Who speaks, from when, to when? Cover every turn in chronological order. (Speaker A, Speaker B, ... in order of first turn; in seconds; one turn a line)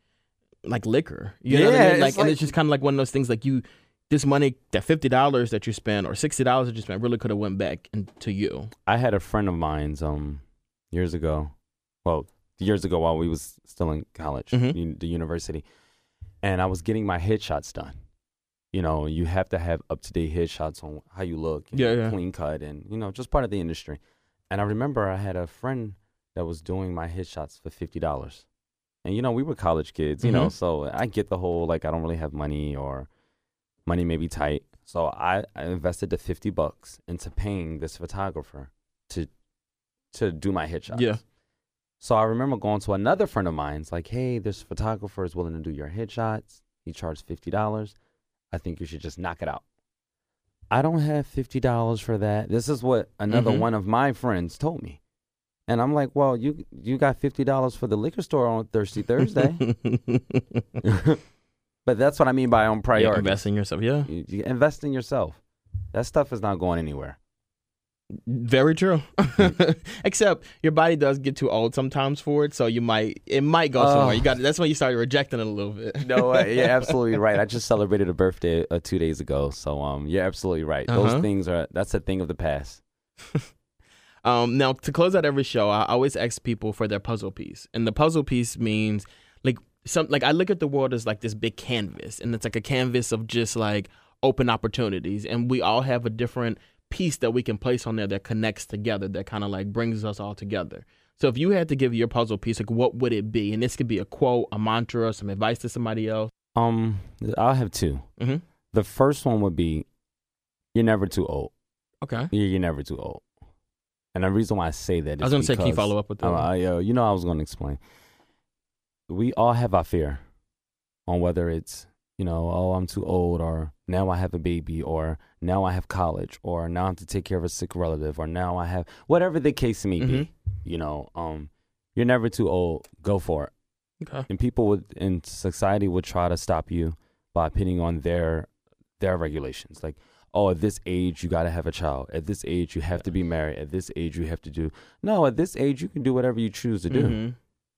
Speaker A: 0.7-8.7
Speaker B: 1.5-2.5
Speaker B: 8.9-11.5
Speaker B: 12.1-15.7
Speaker A: 14.5-14.8
Speaker B: 16.4-17.9
Speaker B: 18.7-28.4
Speaker A: 21.7-22.2
Speaker B: 29.1-33.1
Speaker A: 30.2-30.5
Speaker B: 33.9-39.3
Speaker B: 40.1-41.1
Speaker A: 40.9-41.2
Speaker B: 42.0-48.0
Speaker B: 48.5-49.6
Speaker B: 50.7-55.0
Speaker A: 53.3-53.7
Speaker B: 55.7-59.6
Speaker A: 59.4-60.6
Speaker B: 60.8-61.2
Speaker B: 61.9-63.4
Speaker A: 63.0-64.1
Speaker B: 64.1-65.4
Speaker B: 65.9-67.2
Speaker A: 68.3-76.9
Speaker B: 73.8-74.3
Speaker B: 76.0-82.8
Speaker A: 80.9-81.3
Speaker A: 84.2-106.3
Speaker B: 106.5-108.1
Speaker A: 108.2-108.4
Speaker B: 108.7-109.9
Speaker B: 110.7-111.5
Speaker A: 112.0-112.3
Speaker B: 112.3-113.2
Speaker B: 114.1-117.8
Speaker A: 115.2-116.5
Speaker B: 119.1-120.2
Speaker B: 121.1-133.5
Speaker A: 130.0-130.3
Speaker A: 134.0-134.3
Speaker B: 134.3-138.5
Speaker B: 139.0-147.2
Speaker A: 146.9-147.4